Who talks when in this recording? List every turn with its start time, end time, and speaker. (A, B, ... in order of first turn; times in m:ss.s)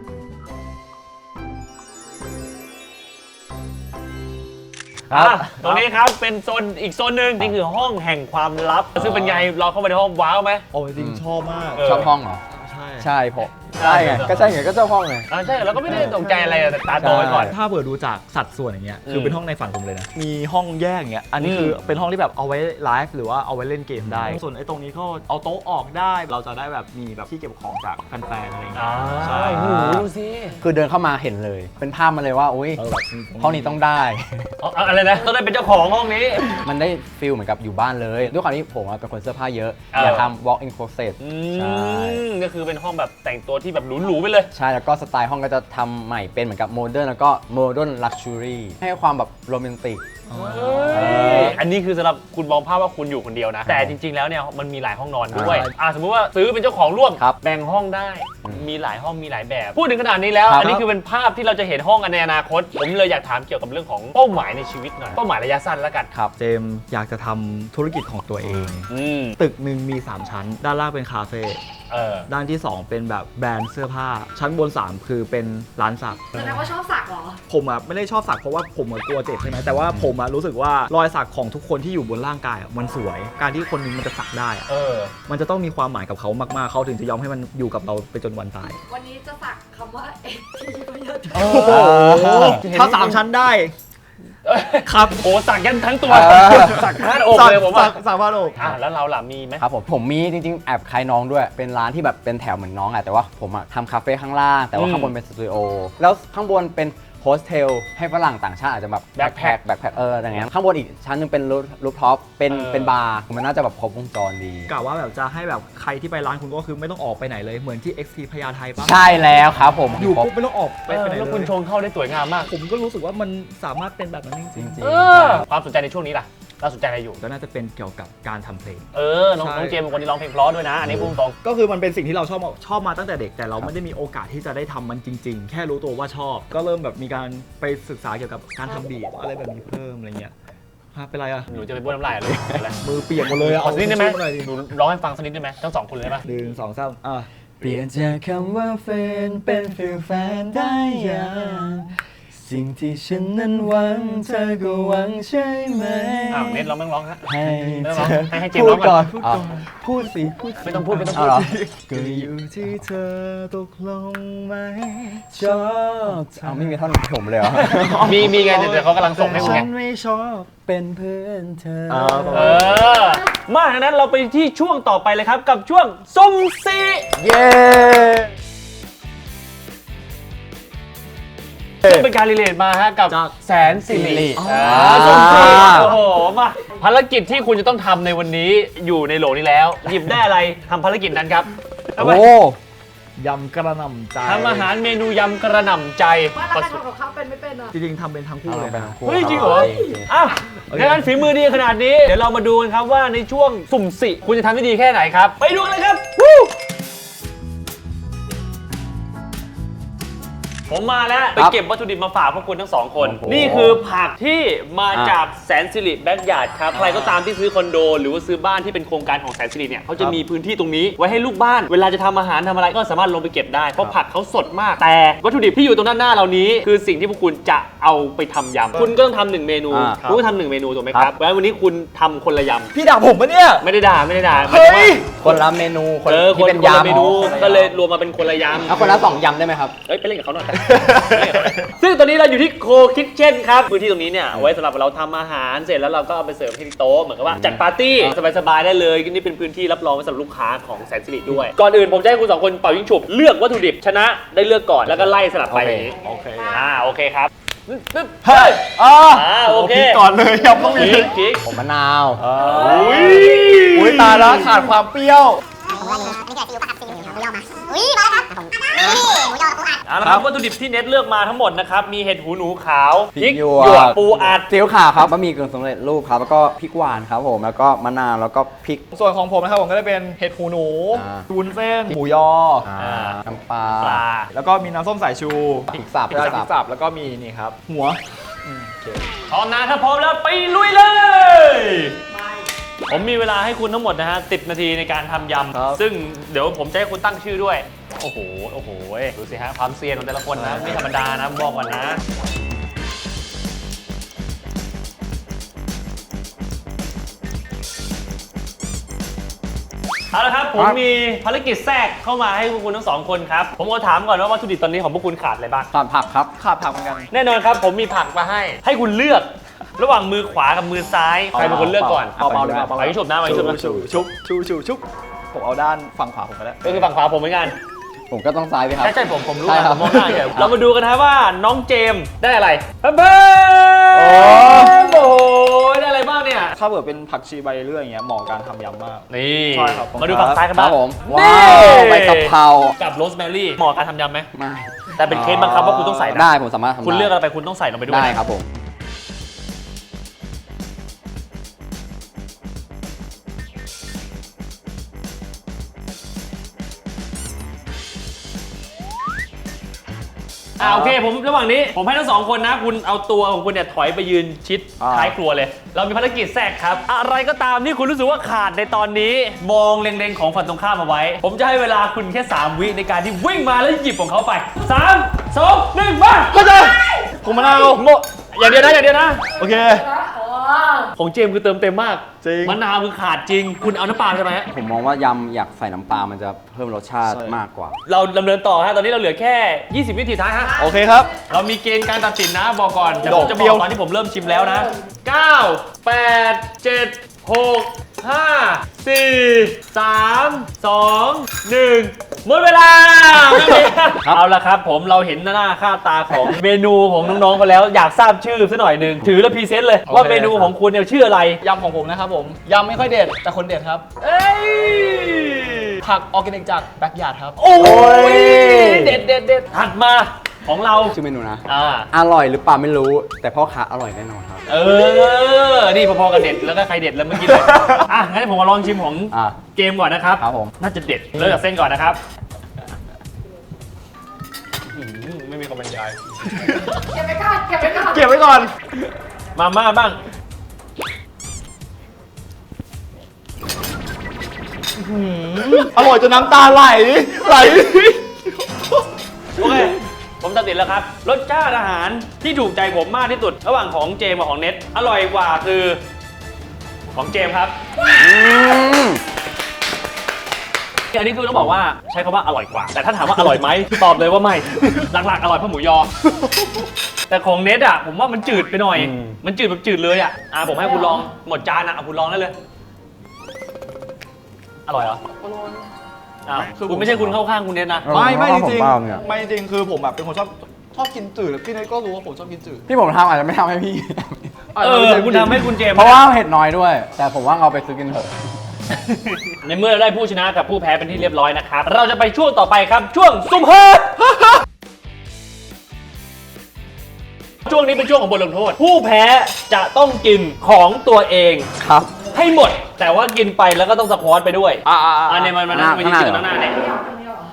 0:05.1-0:05.8 A
0:05.1-0:10.6 B
0:10.7-0:11.8 C
0:11.0-0:11.2 A
0:11.8-0:12.1 B
0:11.8-0:12.4 A
0:12.5-0:13.1 C
0:13.0-0:15.3 A
0:13.8-0:14.5 B
0:15.3-0:17.5 B
0:15.8-0:29.8 C
0:17.0-0:17.5 A
0:19.1-0:19.4 B
0:21.4-0:21.8 B
0:24.0-0:24.4 A
0:28.7-0:30.6 B
0:29.4-0:30.1 A
0:30.6-0:32.8 A
0:32.8-0:33.8 C
0:33.4-0:34.5 A
0:34.6-0:36.5 B
0:36.6-0:42.2 A
0:39.9-0:40.3 B
0:41.2-0:44.5 B
0:44.5-0:50.0 A
0:50.3-0:51.6 C
0:50.4-1:06.1 B
0:50.9-0:51.6 A
0:53.7-0:54.0 A
0:55.3-0:55.7 A
0:55.3-0:55.7 C
1:00.5-1:00.8 A
1:00.6-1:00.9 C
1:06.4-1:11.6 C
1:08.9-1:09.4 B
1:11.9-1:12.3 B
1:12.3-1:16.4 C
1:16.3-1:16.7 B
1:16.6-1:17.4 D
1:17.5-1:24.7 C
1:24.7-1:25.1 B
1:25.3-1:28.8 C
1:28.9-1:31.3 D
1:31.3-1:33.7 C
1:31.4-1:33.2 B
1:31.5-1:32.6 A
1:34.4-1:38.0 B
1:34.8-1:35.3 C
1:36.0-1:36.9 A
1:36.3-1:38.7 C
1:38.6-1:39.6 B
1:39.6-1:54.7 A
1:44.7-1:45.1 B
1:49.2-1:49.6 B
1:52.5-1:53.0 B
1:54.7-1:59.0 C
1:58.8-2:00.3 A
1:59.9-2:01.6 C
2:00.9-2:02.5 B
2:02.5-2:04.8 C
2:04.6-2:05.5 A
2:04.8-2:07.2 B
2:07.2-2:08.9 C
2:08.9-2:11.4 B
2:09.4-2:09.8 C
2:10.8-2:11.2 A
2:11.4-2:20.3 C
2:20.9-2:21.5 C
2:21.5-2:26.2 B
2:22.8-2:24.5 C
2:26.2-2:27.3 C
2:27.6-2:36.7 A
2:36.3-2:39.1 B
2:37.3-2:42.3 A
2:37.5-2:38.1 C
2:38.9-2:40.2 C
2:40.6-2:41.4 B
2:40.7-2:46.8 C
2:45.3-2:48.4 A
2:47.4-2:50.6 C
2:48.0-2:49.7 B
2:49.3-2:49.7 A
2:50.7-2:52.8 A
2:51.9-2:52.9 C
2:52.3-2:57.1 B
2:57.2-2:58.3 A
3:01.8-3:12.3 B
3:03.8-3:06.0 A
3:04.4-3:05.8 C
3:12.0-3:12.6 A
3:13.2-3:14.7 C
3:14.2-3:16.8 B
3:16.8-3:17.7 D
3:17.7-3:19.4 C
3:18.5-3:20.1 A
3:19.0-3:26.5 B
3:20.7-3:21.2 C
3:30.7-3:52.7 B
3:33.0-3:33.8 A
3:34.9-3:35.2 A
3:36.7-3:37.2 C
3:49.7-3:50.0 A
3:50.0-3:50.3 C
3:52.7-3:53.7 C
3:53.6-3:55.3 B
3:54.4-3:55.2 C
3:55.2-3:57.5 A
3:56.1-3:59.1 B
3:56.9-3:57.8 C
3:58.7-3:59.8 A
3:59.9-4:15.9 B
4:00.6-4:01.6 C
4:07.3-4:08.1 A
4:14.9-4:16.6 C
4:16.5-4:20.1 B
4:18.2-4:21.1 C
4:20.8-4:21.4 B
4:21.5-4:22.2 A
4:22.2-4:25.4 C
4:22.4-4:24.4 B
4:25.7-4:29.8 E
4:29.9-4:34.5 B
4:33.2-4:38.9 A
4:34.0-4:34.4 C
4:38.9-4:42.7 C
4:40.9-4:41.2 A
4:42.6-4:44.0 A
4:42.8-4:43.2 B
4:43.8-4:44.3 B
4:44.3-4:49.1 C
4:45.7-4:46.5 A
4:49.3-4:52.0 B
4:52.9-5:02.0 B
4:55.5-4:55.8 C
5:00.3-5:00.8 C
5:10.1-5:15.7 B
5:15.7-5:16.3 A
5:16.4-5:17.1 C
5:17.1-5:22.2 B
5:21.3-5:26.9 C
5:22.2-5:22.7 A
5:22.8-5:23.8 B
5:23.5-5:24.0 A
5:26.6-5:27.6 B
5:28.1-5:30.5 A
5:28.8-5:36.6 B
5:33.9-5:34.8 C
5:36.6-5:40.5 C
5:39.1-5:44.3 B
5:40.5-5:42.8 A
5:44.3-5:47.2 A
5:45.0-5:48.2 B
5:47.9-5:48.5 A
6:00.6-6:16.7 B
6:00.6-6:01.0 C
6:04.8-6:05.2 C
6:16.3-6:18.0 C
6:17.7-6:19.3 B
6:19.4-6:20.0 C
6:20.0-6:20.4 D
6:20.7-6:24.5 B
6:22.2-6:22.6 C
6:24.5-6:27.8 A
6:27.0-6:27.4 C
6:27.9-6:30.6 B
6:30.6-6:31.2 C
6:31.2-6:51.4 B
6:33.0-6:33.7 C
6:49.9-6:50.5 C
6:51.4-6:53.9 C
6:54.0-6:55.8 B
6:55.8-6:59.0 C
6:57.4-7:01.0 B
7:00.9-7:04.4 A
7:01.5-7:01.9 B
7:04.5-7:12.0 B
7:07.2-7:07.8 C
7:09.1-7:09.4 A
7:10.2-7:10.5 A
7:14.7-7:16.0 B
7:16.3-7:18.5 C
7:19.4-7:20.0 B
7:24.8-7:28.6 C
7:29.4-7:35.8 B
7:29.4-7:29.7 C
7:36.9-7:38.0 B
7:37.9-7:39.0 A
7:40.9-7:45.9 B
7:47.1-7:52.4 B
7:48.7-7:49.2 A
7:54.7-7:55.0 B
7:56.3-7:57.9 B
7:56.6-7:57.0 C
7:57.8-7:59.0 A
7:57.9-8:02.7 C
8:02.7-8:04.3 A
8:04.6-8:05.6 C
8:04.6-8:06.0 B
8:05.6-8:08.1 A
8:08.8-8:14.2 B
8:17.4-8:21.5 B
8:21.6-8:21.9 A
8:22.1-8:27.0 B
8:24.6-8:25.4 C
8:25.4-8:26.4 A